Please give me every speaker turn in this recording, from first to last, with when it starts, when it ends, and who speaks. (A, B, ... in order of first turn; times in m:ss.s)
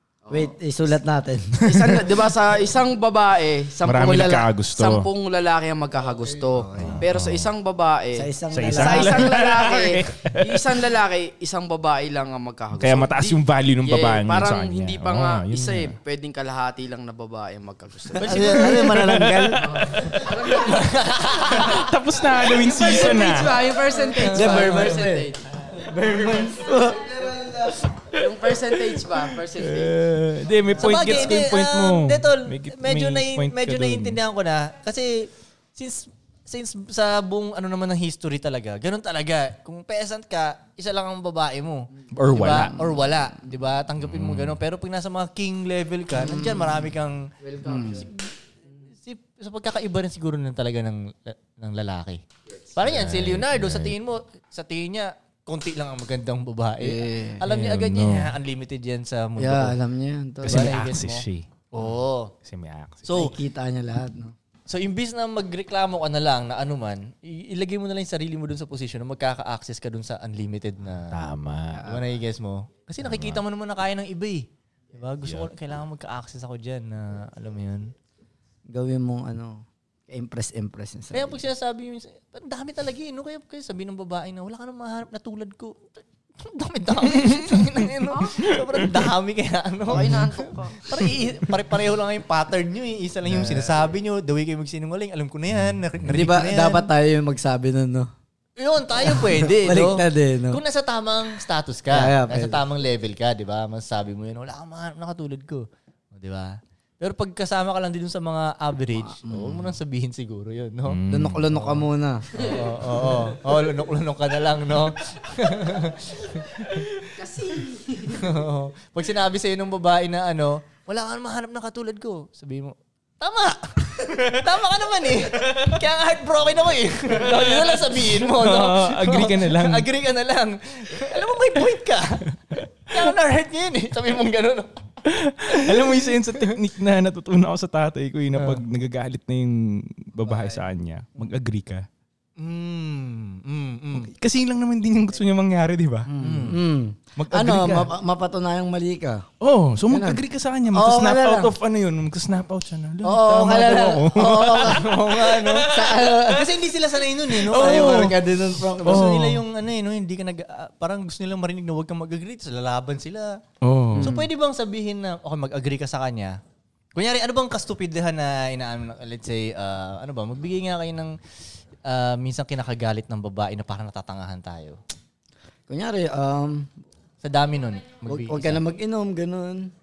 0:00.2-0:00.5 A
0:00.3-0:01.6 B
0:01.6-0:18.8 A
0:01.7-0:02.1 C
0:03.8-0:05.1 C
0:06.3-0:07.0 B
0:06.8-0:07.5 C
0:08.1-0:09.3 B
0:08.5-0:10.8 C
0:12.7-0:16.0 C
0:18.2-0:19.6 B
0:18.2-0:19.4 D
0:18.5-0:20.6 C
0:19.6-0:21.3 A
0:20.5-0:21.8 D
0:21.3-0:23.7 C
0:22.4-0:25.4 A
0:24.2-0:27.7 B
0:28.1-0:30.0 A
0:28.8-0:34.2 C
0:30.8-0:48.1 D
0:42.1-0:42.8 C
0:44.0-0:44.6 C
0:46.1-0:46.8 B
0:47.4-0:48.0 A
0:47.6-0:48.0 B
0:49.0-0:52.2 D
0:52.7-0:59.8 D
0:52.8-0:54.0 C
0:56.8-0:57.4 B
0:57.4-0:58.4 C
0:59.4-1:00.8 B
1:00.4-1:01.8 C
1:00.4-1:02.3 D
1:02.4-1:03.2 C
1:03.0-1:03.3 D
1:03.1-1:04.3 B
1:04.7-1:11.2 D
1:11.1-1:11.9 C
1:11.8-1:17.9 D
1:13.0-1:13.4 C
1:15.2-1:15.5 C
1:18.7-1:21.4 B
1:21.1-1:36.9 D
1:27.2-1:27.8 C
1:28.4-1:29.1 C
1:29.9-1:30.3 B
1:29.9-1:30.9 A
1:33.2-1:33.8 B
1:35.6-1:36.1 C
1:36.1-1:38.1 B
1:38.6-1:51.0 D
1:39.0-1:40.6 B
1:41.9-1:42.6 B
1:49.1-1:49.6 B
1:50.8-1:51.6 C
1:51.1-1:52.2 B
1:52.3-1:52.9 A
1:52.4-1:56.8 D
1:57.2-1:58.3 A
1:58.1-2:14.8 D
2:07.2-2:09.9 C
2:11.0-2:11.3 C
2:12.5-2:13.1 C
2:15.0-2:21.8 C
2:15.4-2:16.6 D
2:18.4-2:18.6 D
2:22.4-2:24.1 D
2:23.9-2:26.1 C
2:26.1-2:29.2 B
2:26.2-2:26.6 D
2:27.2-2:27.9 C
2:29.4-2:36.0 C
2:29.9-2:30.2 B
2:30.7-2:31.5 B
2:33.0-2:34.9 B
2:34.0-2:38.1 D
2:35.7-2:36.4 B
2:37.3-2:38.2 C
2:37.5-2:39.1 B
2:38.8-2:43.4 D
2:38.8-2:39.4 C
2:43.6-2:44.2 C
2:43.9-2:44.3 B
2:44.0-2:46.4 D
2:46.9-2:51.2 D
2:51.8-2:54.8 D
2:55.7-2:56.7 B
2:57.2-2:58.6 D
2:58.0-2:59.7 B